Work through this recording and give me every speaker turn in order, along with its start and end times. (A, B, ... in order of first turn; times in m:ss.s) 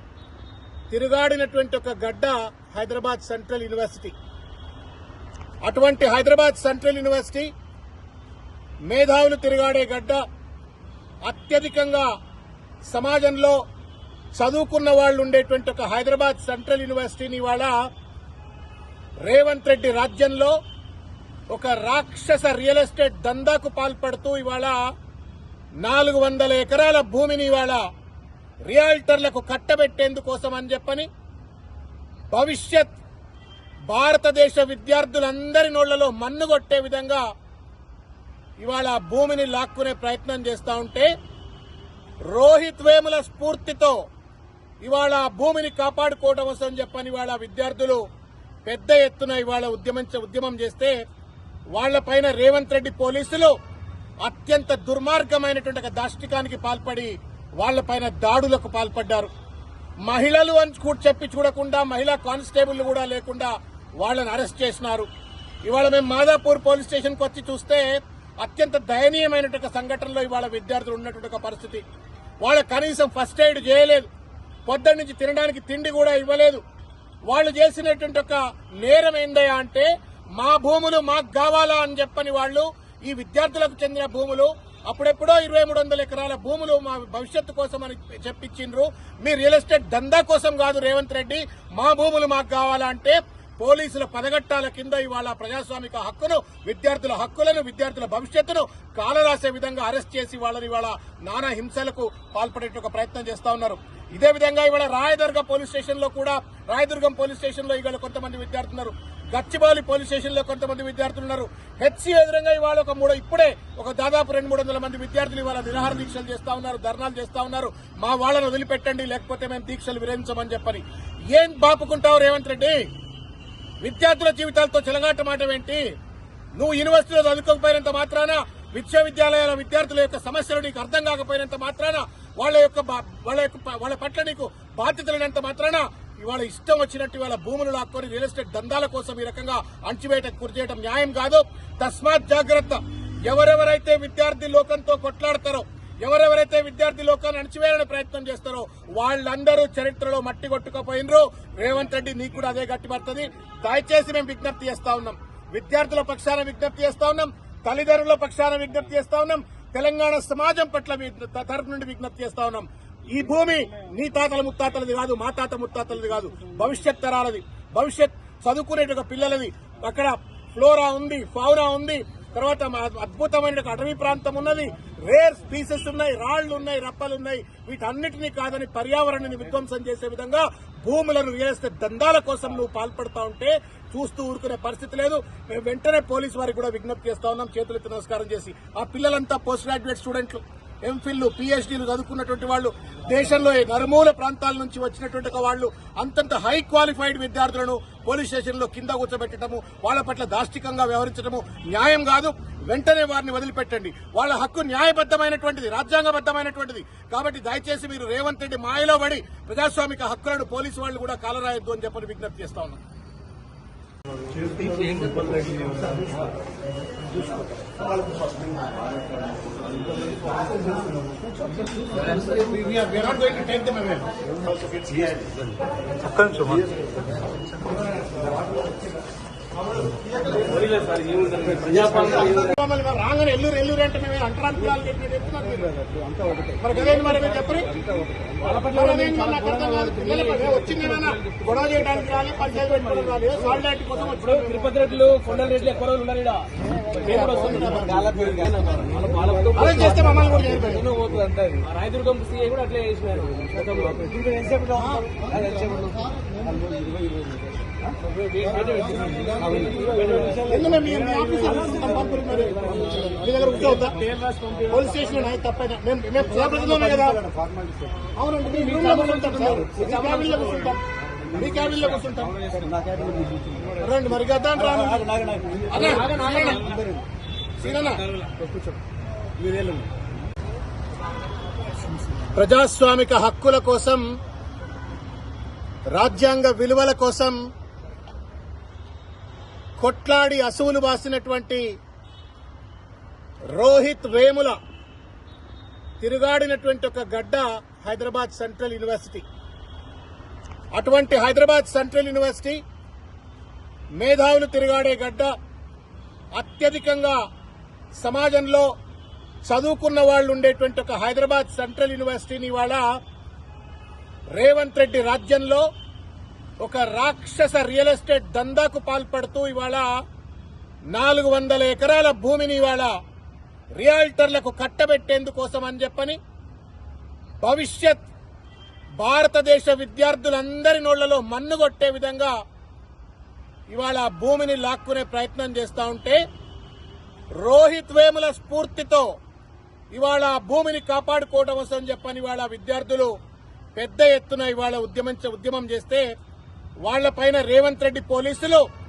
0:00.9-0:04.1 A
0:05.6-0:07.5 A
0:08.9-0:10.2 A
0:11.2-0:12.1 A
0:12.9-0:13.6 A
0:14.4-0:17.7 A
0:19.2-0:20.5 A
0:21.5-0:24.8 A
0:25.8-0:27.8 A
0:28.7-0:31.1 A
0:32.3-0:32.9 A
0:33.9-0:37.2 A
0:38.6-0:41.1 A
0:42.3-0:44.0 A
0:44.8-0:48.0 A
0:48.6-0:50.9 A
0:51.7-0:53.5 A
0:54.2-0:59.3 A
1:00.0-1:05.1 A
1:05.6-1:07.9 A
1:08.4-1:11.8 A
1:12.4-1:14.1 A
1:14.7-1:16.6 A
1:17.3-2:00.8 A
2:01.3-2:02.8 A
2:03.8-2:05.8 A
2:06.6-3:32.8 A
3:34.6-3:35.8 B
3:42.2-3:44.1 A
3:46.1-3:46.6 B
3:50.5-3:52.2 C
3:51.8-3:52.1 B
3:51.8-3:55.7 A
3:55.9-3:56.6 B
3:56.6-3:57.7 A
3:58.4-4:03.6 C
3:58.7-4:04.9 A
4:04.1-4:06.4 C
4:07.0-4:14.2 C
4:07.0-4:08.1 A
4:07.4-4:09.0 B
4:09.5-4:10.9 A
4:09.6-4:11.6 B
4:13.9-4:17.9 B
4:14.8-4:15.1 A
4:15.5-4:16.0 C
4:18.0-4:20.5 C
4:19.3-4:21.3 B
4:20.5-4:24.0 A
4:21.2-4:25.4 C
4:24.7-4:27.2 A
4:26.2-4:28.0 B
4:28.1-4:30.8 A
4:28.4-4:30.8 C
4:31.3-4:32.4 A
4:31.5-4:32.6 C
4:32.5-4:33.8 B
4:33.8-4:35.0 A
4:34.6-4:37.0 B
4:35.7-4:36.6 A
4:35.9-4:36.8 C
4:37.6-4:38.0 A
4:37.8-4:38.7 C
4:39.4-4:39.9 B
4:42.4-4:44.0 A
4:46.0-4:47.4 A
4:49.8-4:51.7 A
4:53.6-4:54.5 A
4:56.0-4:59.2 A
5:00.7-5:02.6 A
5:04.0-5:05.3 A
5:06.4-5:07.2 A
5:08.0-5:08.7 A
5:09.5-5:12.8 A
5:14.4-5:15.6 A
5:16.6-5:19.8 A
5:20.9-5:22.9 A
5:23.8-5:26.2 A
5:27.4-5:28.0 A
5:29.0-5:32.3 A
5:33.7-5:36.2 A
5:37.4-5:39.1 A
5:39.9-5:43.1 A
5:43.8-5:46.0 A
5:46.8-5:48.6 A